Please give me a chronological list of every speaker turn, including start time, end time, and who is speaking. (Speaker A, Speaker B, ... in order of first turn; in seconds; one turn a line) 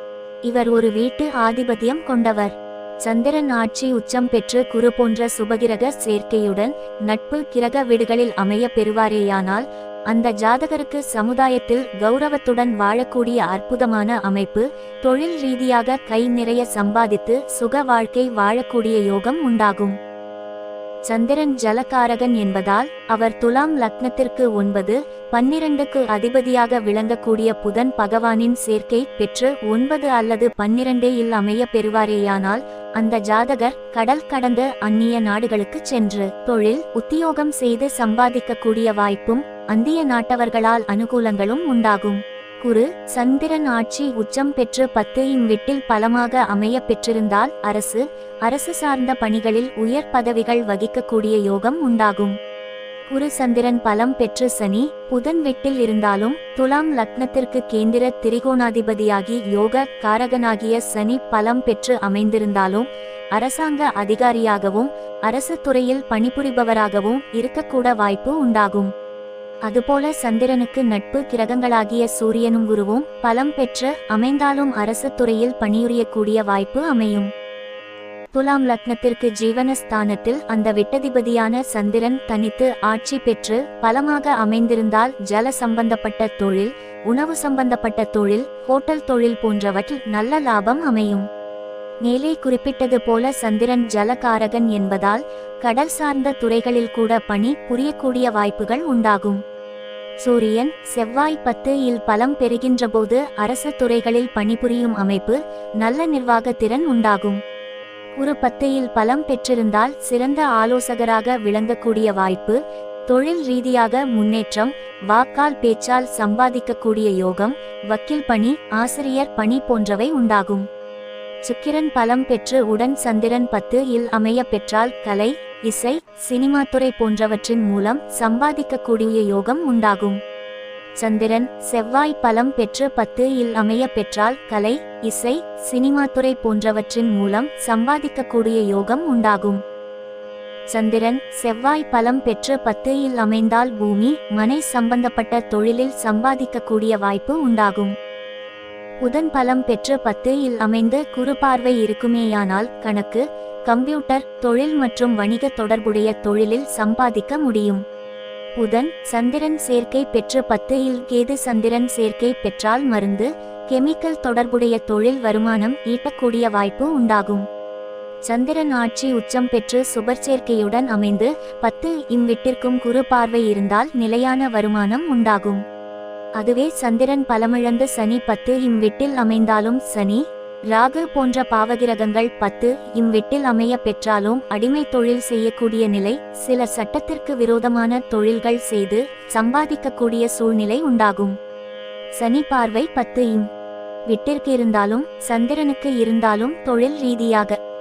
Speaker A: 0.5-19.9
Speaker A: 21.1-52.4
Speaker A: 53.1-68.9
Speaker A: 69.7-77.3
Speaker A: 78.3-91.2
Speaker A: 92.0-99.4
Speaker A: 100.2-107.4
Speaker A: 108.2-120.7
Speaker A: 121.4-130.2
Speaker A: 131.0-139.6
Speaker A: 140.7-147.9
Speaker A: 149.0-157.8
Speaker A: 158.6-167.4
Speaker A: 168.3-175.6
Speaker A: 176.4-191.3
Speaker A: 192.2-193.5
Speaker A: 194.1-197.6